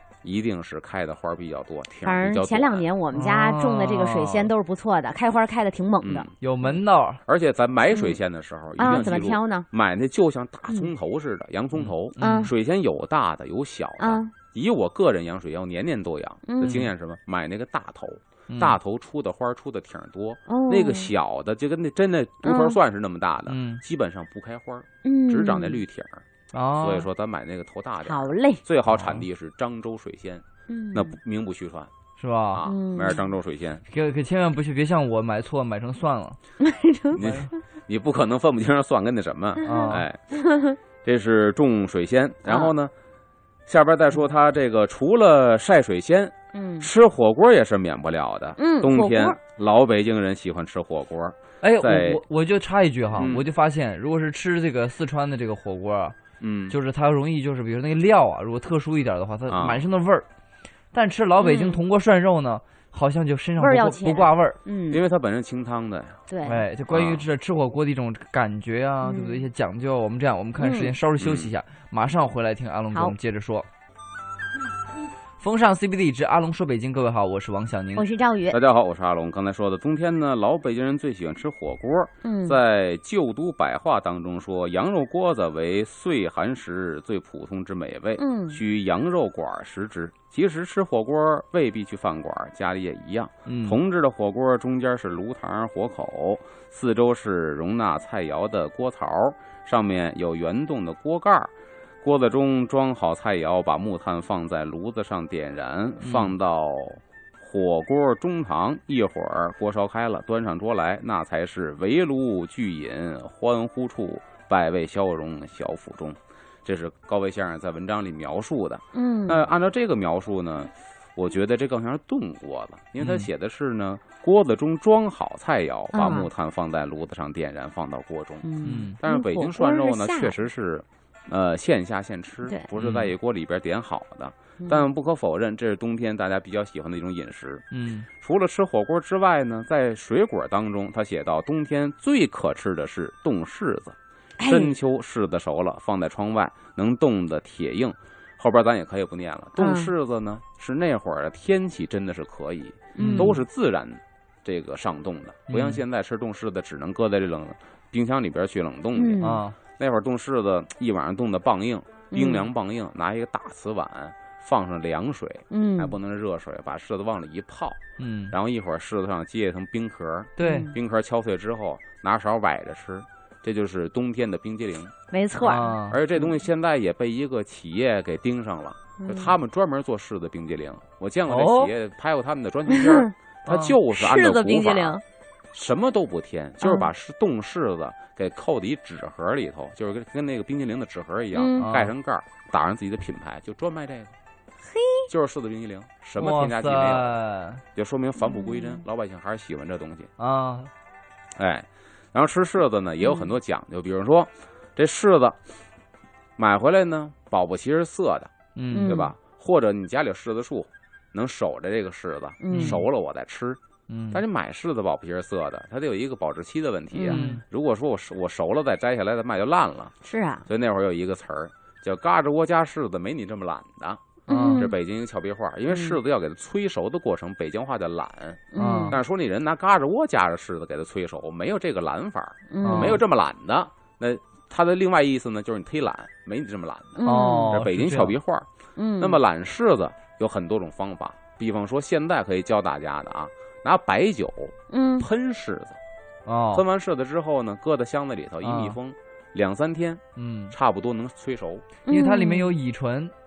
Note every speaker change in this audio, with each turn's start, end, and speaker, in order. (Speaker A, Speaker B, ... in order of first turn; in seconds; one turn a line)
Speaker A: 0.2-2.9
Speaker B: 2.0-6.3
Speaker C: 3.1-4.5
Speaker A: 6.0-26.2
Speaker C: 6.4-7.2
Speaker B: 7.9-8.2
Speaker B: 8.8-9.7
Speaker C: 8.8-9.1
Speaker C: 11.7-12.5
Speaker B: 12.2-12.5
Speaker B: 14.0-14.3
Speaker B: 16.5-16.9
Speaker C: 18.5-18.8
Speaker B: 20.5-21.1
Speaker B: 22.4-22.8
Speaker C: 23.5-23.8
Speaker B: 25.0-25.8
Speaker C: 26.5-27.1
Speaker A: 26.8-31.9
Speaker B: 28.0-28.6
Speaker C: 28.9-29.2
Speaker B: 30.7-31.1
Speaker C: 32.1-32.6
Speaker A: 32.5-33.8
Speaker B: 32.6-33.3
Speaker C: 33.9-36.4
Speaker B: 36.6-37.4
Speaker A: 37.1-40.2
Speaker C: 37.2-37.5
Speaker B: 39.6-40.8
Speaker C: 39.6-40.0
Speaker A: 41.0-42.9
Speaker B: 42.5-42.7
Speaker A: 43.7-52.2
Speaker B: 46.5-46.9
Speaker B: 48.6-49.4
Speaker C: 51.6-56.1
Speaker A: 53.1-53.5
Speaker A: 56.4-56.8
Speaker C: 56.7-60.3
Speaker A: 59.5-59.8
Speaker C: 60.9-64.6
Speaker B: 61.4-61.8
Speaker B: 63.6-65.0
Speaker A: 64.9-66.2
Speaker B: 66.3-66.7
Speaker C: 66.4-73.7
Speaker A: 66.9-67.2
Speaker B: 69.0-69.5
Speaker B: 70.6-70.9
Speaker A: 71.2-71.5
Speaker C: 75.4-78.0
Speaker B: 78.0-78.6
Speaker A: 78.5-174.9
Speaker B: 82.2-82.6
Speaker B: 88.2-88.6
Speaker C: 93.5-93.8
Speaker C: 106.0-106.3
Speaker B: 118.9-119.4
Speaker C: 123.0-123.3
Speaker B: 125.9-126.3
Speaker B: 128.4-130.4
Speaker C: 128.6-129.0
Speaker C: 132.8-133.1
Speaker B: 134.6-134.9
Speaker C: 137.7-138.1
Speaker B: 144.4-144.8
Speaker B: 149.6-149.9
Speaker B: 152.9-153.4
Speaker C: 153.0-153.3
Speaker C: 155.5-155.8
Speaker B: 158.9-159.4
Speaker C: 159.2-159.6
Speaker B: 162.1-162.5
Speaker B: 165.5-166.0
Speaker C: 168.0-168.3
Speaker C: 170.4-170.7
Speaker B: 170.4-170.7
Speaker B: 175.1-175.8
Speaker C: 175.4-176.0
Speaker A: 175.9-185.0
Speaker B: 179.0-179.3
Speaker C: 181.3-181.7
Speaker B: 182.7-183.1
Speaker C: 183.4-183.8
Speaker B: 183.9-185.0
Speaker A: 185.5-194.1
Speaker B: 186.6-186.9
Speaker B: 191.3-191.7
Speaker C: 191.6-191.9
Speaker B: 194.6-195.1
Speaker A: 195.1-197.2
Speaker C: 196.2-197.6
Speaker A: 197.7-200.1
Speaker B: 198.2-198.8
Speaker C: 200.2-200.7
Speaker A: 201.3-205.4
Speaker B: 203.0-203.3
Speaker A: 206.4-208.3
Speaker C: 208.5-209.0
Speaker B: 208.7-209.1
Speaker A: 208.8-213.6
Speaker B: 212.4-212.8
Speaker C: 212.5-212.8
Speaker C: 213.9-214.2
Speaker A: 214.1-219.9
Speaker B: 216.9-217.3
Speaker C: 217.1-217.4
Speaker B: 220.0-220.4
Speaker A: 220.4-245.8
Speaker B: 224.3-224.7
Speaker C: 224.3-224.6
Speaker B: 225.7-226.0
Speaker B: 228.5-229.0
Speaker C: 228.6-229.0
Speaker B: 232.5-233.0
Speaker C: 232.6-233.0
Speaker B: 237.0-237.6
Speaker C: 237.0-238.1
Speaker B: 238.8-239.2
Speaker B: 244.7-245.1
Speaker C: 246.2-246.6
Speaker A: 246.5-251.7
Speaker C: 248.4-248.8
Speaker C: 250.2-250.5
Speaker B: 251.8-252.5
Speaker C: 251.9-253.1